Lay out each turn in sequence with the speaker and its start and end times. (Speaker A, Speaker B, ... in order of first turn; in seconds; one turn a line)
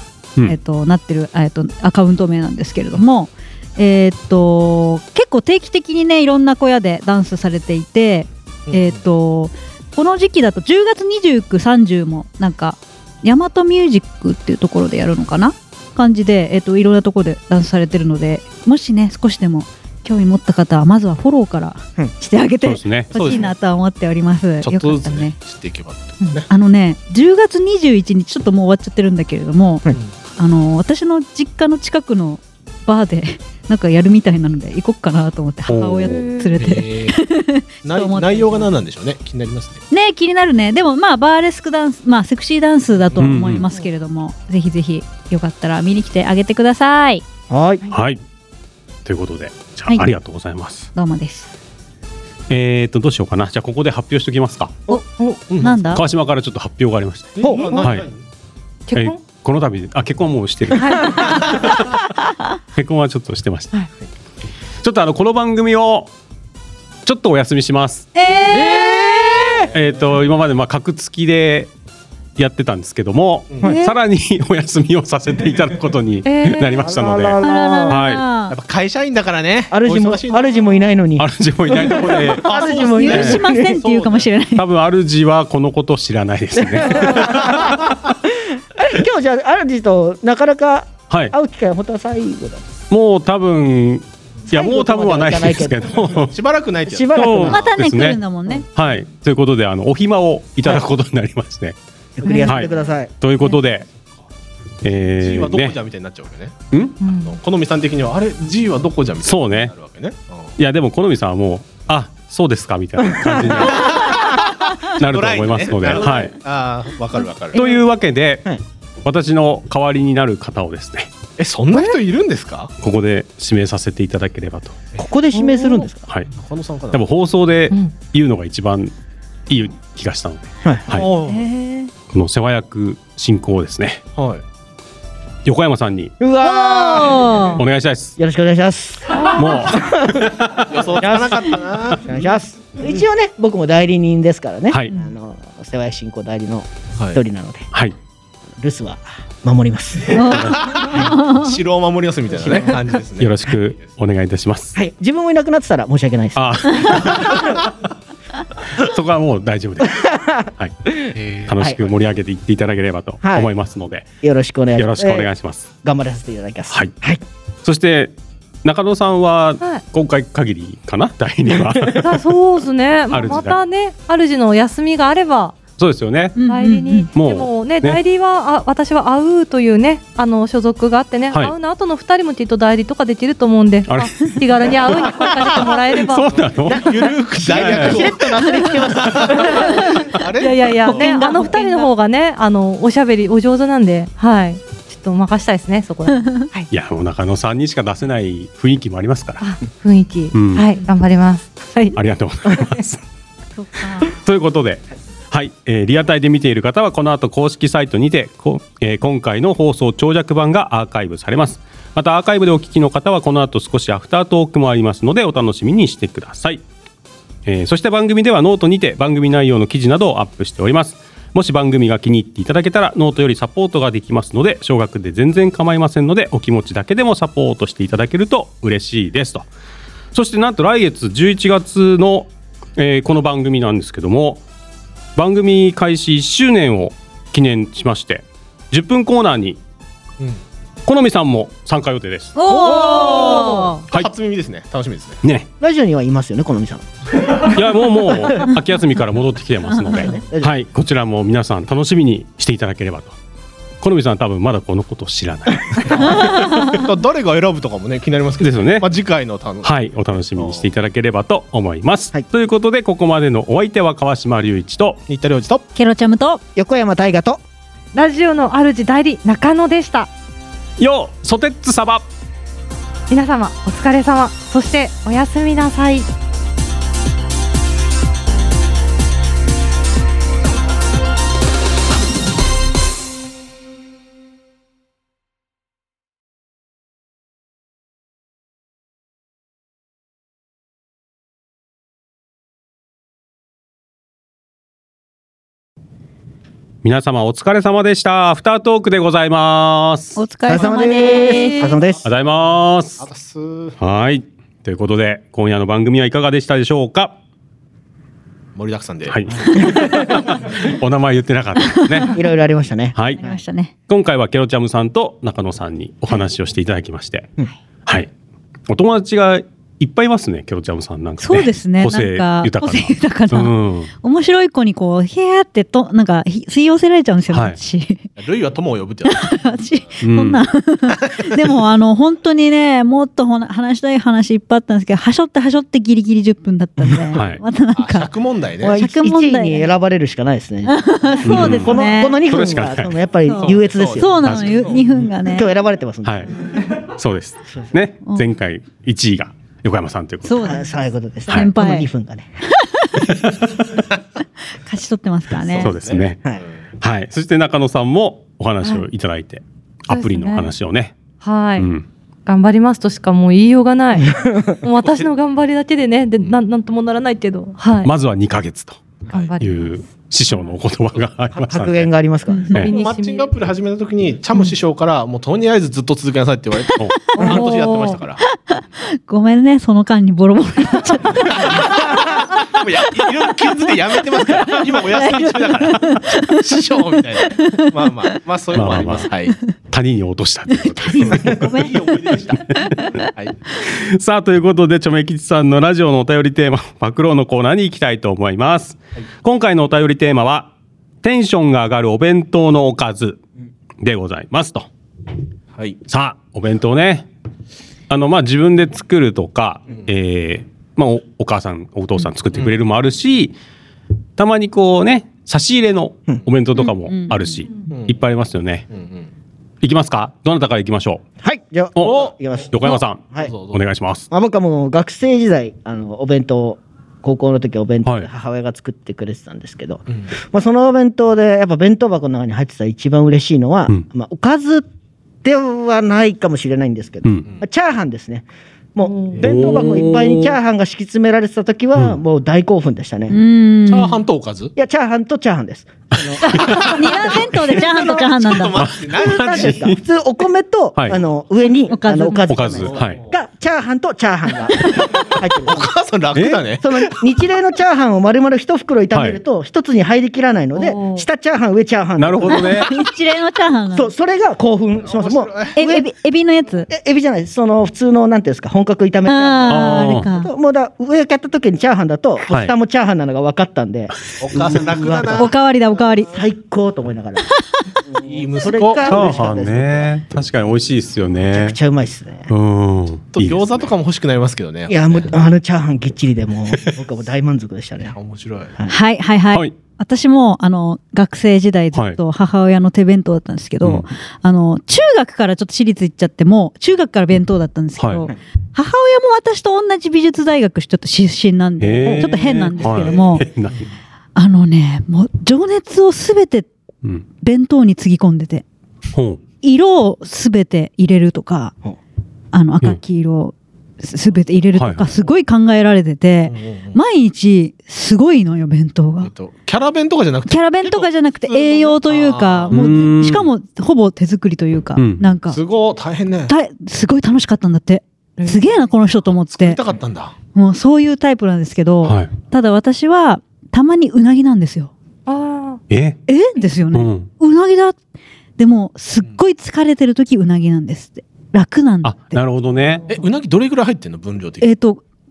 Speaker A: 0.4-25.4
Speaker B: 8.7-9.0
Speaker C: 22.6-23.1
Speaker B: 23.1-23.5
Speaker B: 24.6-26.5
Speaker A: 26.5-29.8
Speaker A: 30.4-38.7
Speaker C: 35.7-36.2
Speaker D: 36.1-36.6
Speaker B: 36.5-37.2
Speaker B: 37.8-39.8
Speaker A: 39.9-47.2
Speaker C: 43.2-43.6
Speaker E: 47.5-47.8
Speaker C: 47.9-48.2
Speaker C: 49.0-50.9
Speaker A: 50.9-51.5
Speaker C: 52.5-54.8
Speaker D: 55.1-55.4
Speaker B: 55.5-55.8
Speaker A: 55.6-56.0
Speaker C: 55.9-58.0
Speaker B: 57.4-58.2
Speaker E: 57.4-57.8
Speaker D: 58.9-59.2
Speaker C: 59.0-62.0
Speaker D: 60.8-61.3
Speaker C: 62.7-63.7
Speaker C: 64.8-66.1
Speaker C: 67.0-68.1
Speaker A: 68.1-69.6
Speaker B: 68.5-69.7
Speaker C: 69.7-71.7
Speaker C: 72.4-78.2
Speaker A: 73.6-73.9
Speaker D: 76.2-76.8
Speaker E: 76.8-78.0
Speaker A: 77.4-78.5
Speaker B: 78.5-80.8
Speaker E: 79.7-83.8
Speaker C: 81.2-83.4
Speaker B: 82.2-84.3
Speaker A: 82.6-84.6
Speaker C: 84.5-87.8
Speaker E: 86.7-87.8
Speaker B: 87.3-87.8
Speaker E: 88.8-92.6
Speaker C: 91.1-91.3
Speaker C: 92.9-96.3
Speaker E: 94.5-95.9
Speaker B: 96.2-97.6
Speaker E: 96.9-97.6
Speaker C: 97.1-98.2
Speaker A: 97.5-98.7
Speaker C: 98.7-101.8
Speaker E: 102.2-103.1
Speaker A: 102.2-102.5
Speaker D: 102.3-102.7
Speaker C: 102.4-103.9
Speaker C: 104.8-105.7
Speaker B: 105.2-106.5
Speaker C: 106.7-107.0
Speaker D: 107.0-107.4
Speaker B: 107.2-110.5
Speaker C: 109.2-109.7
Speaker C: 110.6-114.2
Speaker B: 113.7-117.6
Speaker C: 114.9-116.3
Speaker C: 117.5-118.5
Speaker C: 119.0-121.1
Speaker B: 121.4-122.7
Speaker C: 122.8-124.8
Speaker E: 125.0-126.0
Speaker D: 125.3-125.8
Speaker B: 126.3-127.0
Speaker C: 126.9-128.9
Speaker C: 129.5-131.1
Speaker E: 130.6-130.9
Speaker B: 130.9-131.4
Speaker A: 131.2-131.9
Speaker C: 132.1-134.0
Speaker B: 134.1-134.4
Speaker C: 135.4-136.1
Speaker E: 136.2-137.5
Speaker A: 136.4-137.6
Speaker C: 137.6-138.2
Speaker E: 138.2-140.3
Speaker C: 139.3-140.4
Speaker B: 140.6-142.3
Speaker E: 141.0-141.5
Speaker E: 142.0-147.6
Speaker E: 148.6-150.2
Speaker A: 150.1-151.5
Speaker B: 150.3-153.9
Speaker E: 152.4-152.7
Speaker C: 153.2-154.8
Speaker E: 154.7-156.6
Speaker C: 156.3-157.6
Speaker C: 158.8-160.7
Speaker E: 161.0-161.8
Speaker B: 161.1-161.6
Speaker C: 161.5-164.1
Speaker E: 163.2-163.5
Speaker E: 164.2-165.3
Speaker C: 164.8-165.7
Speaker E: 165.8-167.2
Speaker C: 167.6-168.1
Speaker C: 168.6-172.1
Speaker D: 172.0-175.6
Speaker C: 173.1-173.6
Speaker C: 175.8-176.4
Speaker A: 176.3-177.1
Speaker D: 176.5-186.4
Speaker C: 177.1-178.0
Speaker C: 183.9-184.4
Speaker C: 185.4-188.1
Speaker B: 186.7-191.3
Speaker E: 187.4-189.5
Speaker A: 188.5-188.8
Speaker A: 189.7-190.0
Speaker D: 190.4-196.7
Speaker A: 190.9-191.9
Speaker C: 196.7-199.4
Speaker D: 199.4-202.0
Speaker C: 200.3-200.7
Speaker C: 201.9-203.0
Speaker A: 203.6-204.2
Speaker C: 204.1-216.6
Speaker C: 217.4-229.4
Speaker C: 230.1-234.4
Speaker C: 235.2-239.6
Speaker C: 240.8-242.7
Speaker A: 242.3-243.8
Speaker B: 242.5-245.2
Speaker E: 245.6-246.8
Speaker C: 247.4-253.1
Speaker A: 249.8-250.1
Speaker E: 250.1-250.5
Speaker C: 253.8-256.2
Speaker B: 255.8-260.6
Speaker A: 256.2-256.8
Speaker C: 258.4-258.9
Speaker C: 259.6-265.0
Speaker B: 265.1-265.6
Speaker A: 265.7-266.4
Speaker E: 266.6-267.4
Speaker D: 267.9-270.1
Speaker C: 270.8-272.0
Speaker D: 273.1-276.1
Speaker C: 296.8-300.2
Speaker A: 300.1-301.8
Speaker E: 300.5-302.1
Speaker C: 302.0-303.0
Speaker B: 303.0-303.8
Speaker C: 303.8-307.1
Speaker B: 308.6-310.1
Speaker C: 309.1-312.1
Speaker A: 311.8-312.2
Speaker E: 312.1-313.4
Speaker C: 312.9-313.2
Speaker A: 313.2-313.7
Speaker C: 313.9-317.3
Speaker C: 318.7-323.9
Speaker A: 321.2-328.1
Speaker C: 327.3-327.6
Speaker B: 328.2-329.6
Speaker A: 329.1-338.1
Speaker C: 330.0-330.4
Speaker B: 331.0-331.3
Speaker C: 337.1-337.4
Speaker B: 337.7-338.8
Speaker E: 338.6-344.7
Speaker A: 338.7-339.7
Speaker A: 340.6-342.2
Speaker C: 341.2-342.9
Speaker A: 343.3-345.5
Speaker B: 343.4-345.0
Speaker C: 344.2-344.6
Speaker E: 345.2-346.3
Speaker C: 346.0-350.6
Speaker A: 350.2-351.9
Speaker E: 350.4-352.3
Speaker C: 351.3-351.5
Speaker A: 354.6-355.7
Speaker B: 355.4-356.6
Speaker C: 355.6-356.2
Speaker C: 356.8-360.9
Speaker D: 359.9-360.5
Speaker D: 361.2-361.7
Speaker C: 361.6-361.9
Speaker D: 362.2-367.9
Speaker E: 364.1-364.5
Speaker C: 367.8-368.8
Speaker D: 369.1-370.5
Speaker C: 369.4-371.9
Speaker E: 371.4-372.5
Speaker A: 372.3-372.6
Speaker D: 372.5-373.3
Speaker B: 372.6-378.2
Speaker A: 377.1-377.4
Speaker D: 377.1-378.0
Speaker A: 378.3-381.8
Speaker B: 381.3-389.4
Speaker A: 384.2-386.6
Speaker A: 387.3-387.8
Speaker C: 388.5-389.1
Speaker C: 389.7-391.4
Speaker A: 390.6-392.8
Speaker B: 391.1-392.4
Speaker C: 393.7-400.5
Speaker C: 401.0-403.2
Speaker C: 403.8-404.7
Speaker C: 405.9-407.1
Speaker C: 407.9-413.3
Speaker C: 414.2-418.7
Speaker A: 416.6-417.4
Speaker B: 417.7-418.0
Speaker B: 418.7-419.1
Speaker C: 419.6-421.0
Speaker E: 421.2-423.3
Speaker C: 421.7-424.1
Speaker B: 421.8-422.1
Speaker B: 423.2-423.6
Speaker E: 424.1-434.6
Speaker E: 435.2-443.2
Speaker D: 438.8-439.2
Speaker B: 439.2-439.6
Speaker C: 439.2-440.4
Speaker C: 441.7-442.0
Speaker A: 443.1-444.0
Speaker B: 443.6-444.5
Speaker E: 444.6-448.1
Speaker A: 446.2-448.6
Speaker C: 446.3-446.6
Speaker B: 448.0-449.7
Speaker C: 448.6-449.8
Speaker E: 448.9-455.7
Speaker A: 451.7-452.5
Speaker C: 452.3-453.0
Speaker B: 452.6-453.1
Speaker B: 455.0-457.0
Speaker C: 456.1-456.4
Speaker E: 456.6-462.7
Speaker C: 458.9-459.2
Speaker D: 460.5-461.1
Speaker C: 462.0-462.8
Speaker A: 462.3-463.9
Speaker E: 463.7-465.9
Speaker B: 464.9-465.6
Speaker A: 465.5-466.7
Speaker E: 466.7-475.2
Speaker A: 469.1-470.3
Speaker C: 469.5-470.1
Speaker C: 472.3-472.5
Speaker B: 474.2-475.3
Speaker A: 475.1-476.1
Speaker E: 476.1-477.2
Speaker B: 478.0-479.4
Speaker E: 478.0-479.9
Speaker C: 478.8-481.6
Speaker E: 481.3-482.3
Speaker C: 482.3-483.4
Speaker B: 483.1-485.1
Speaker E: 484.7-487.9
Speaker B: 487.9-488.5
Speaker A: 488.7-503.2
Speaker C: 491.7-492.0
Speaker C: 497.8-498.1
Speaker C: 501.6-503.7
Speaker A: 504.1-506.5
Speaker A: 507.2-508.4
Speaker C: 508.9-509.2
Speaker A: 509.4-511.5
Speaker A: 512.3-519.1
Speaker C: 514.5-514.9
Speaker B: 516.3-516.8
Speaker B: 519.0-522.8
Speaker A: 520.3-525.4
Speaker C: 522.5-523.3
Speaker C: 524.8-525.0
Speaker B: 525.3-526.3
Speaker A: 526.3-529.6
Speaker D: 528.2-528.6
Speaker B: 529.0-530.1
Speaker A: 530.3-534.7
Speaker C: 531.8-532.1
Speaker D: 535.1-535.6
Speaker C: 535.7-536.0
Speaker A: 536.1-537.8
Speaker C: 536.7-537.1
Speaker A: 538.4-542.2
Speaker C: 541.8-542.8
Speaker B: 542.9-544.5
Speaker A: 544.4-544.8